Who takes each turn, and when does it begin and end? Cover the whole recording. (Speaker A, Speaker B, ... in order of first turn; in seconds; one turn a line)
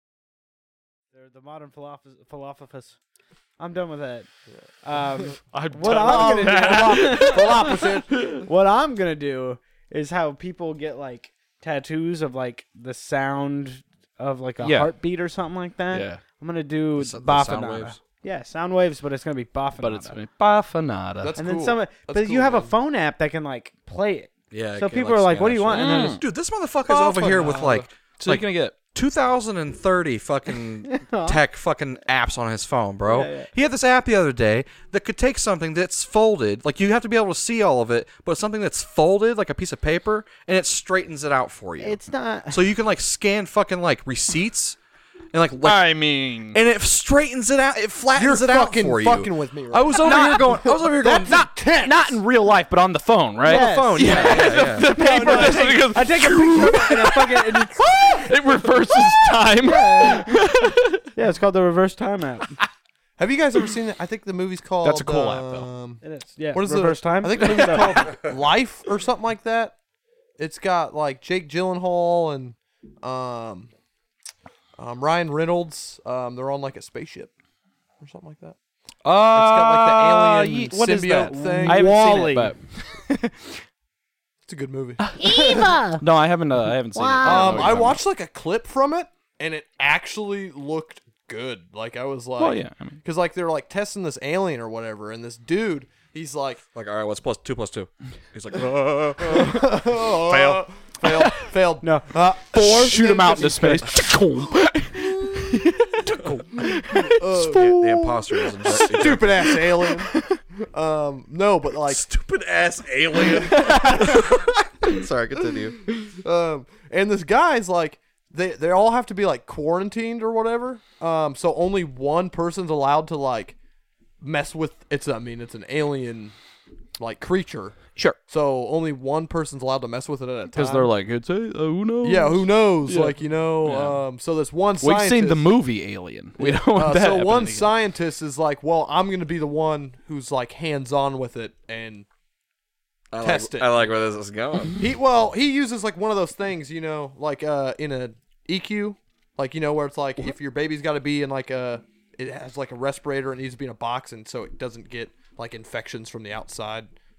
Speaker A: 1.1-3.0
Speaker A: 3.6-4.3
Speaker A: 4.8-20.2
Speaker B: 5.5-8.4
Speaker C: 5.8-8.1
Speaker B: 14.6-14.9
Speaker B: 15.9-16.2
Speaker D: 17.0-18.0
Speaker B: 19.8-21.4
Speaker C: 21.2-22.7
Speaker A: 21.4-26.2
Speaker D: 24.5-42.0
Speaker B: 25.7-26.2
Speaker C: 26.9-27.9
Speaker B: 28.2-28.7
Speaker A: 30.8-31.4
Speaker A: 33.0-33.5
Speaker A: 41.8-42.7
Speaker D: 42.5-44.8
Speaker D: 45.3-46.0
Speaker B: 45.6-46.6
Speaker D: 46.5-51.5
Speaker C: 48.1-52.2
Speaker B: 50.0-50.6
Speaker B: 51.3-61.0
Speaker D: 53.4-55.6
Speaker A: 53.4-57.9
Speaker C: 55.3-55.5
Speaker A: 59.6-60.5
Speaker A: 61.1-62.5
Speaker C: 63.2-66.0
Speaker B: 64.8-65.7
Speaker A: 66.0-68.1
Speaker C: 66.5-69.8
Speaker C: 70.4-73.7
Speaker C: 74.8-77.3
Speaker C: 78.0-78.5
Speaker B: 79.0-83.6
Speaker C: 79.2-81.9
Speaker A: 81.3-82.5
Speaker C: 84.5-85.7
Speaker B: 85.0-88.0
Speaker A: 85.2-86.0
Speaker A: 86.9-87.4
Speaker C: 87.2-96.6
Speaker B: 92.4-93.0
Speaker D: 96.7-100.6
Speaker C: 99.2-104.5
Speaker B: 101.0-101.5
Speaker A: 101.8-103.8
Speaker B: 102.5-107.5
Speaker C: 106.9-112.0
Speaker D: 107.3-109.7
Speaker B: 109.4-110.4
Speaker D: 111.8-115.9
Speaker C: 113.2-114.3
Speaker B: 113.5-114.1
Speaker C: 115.9-123.5
Speaker C: 124.2-126.3
Speaker C: 127.0-130.9
Speaker B: 130.5-134.0
Speaker C: 132.0-135.5
Speaker B: 134.8-137.7
Speaker C: 136.4-142.1
Speaker D: 143.1-144.8
Speaker C: 143.2-143.9
Speaker C: 144.8-156.9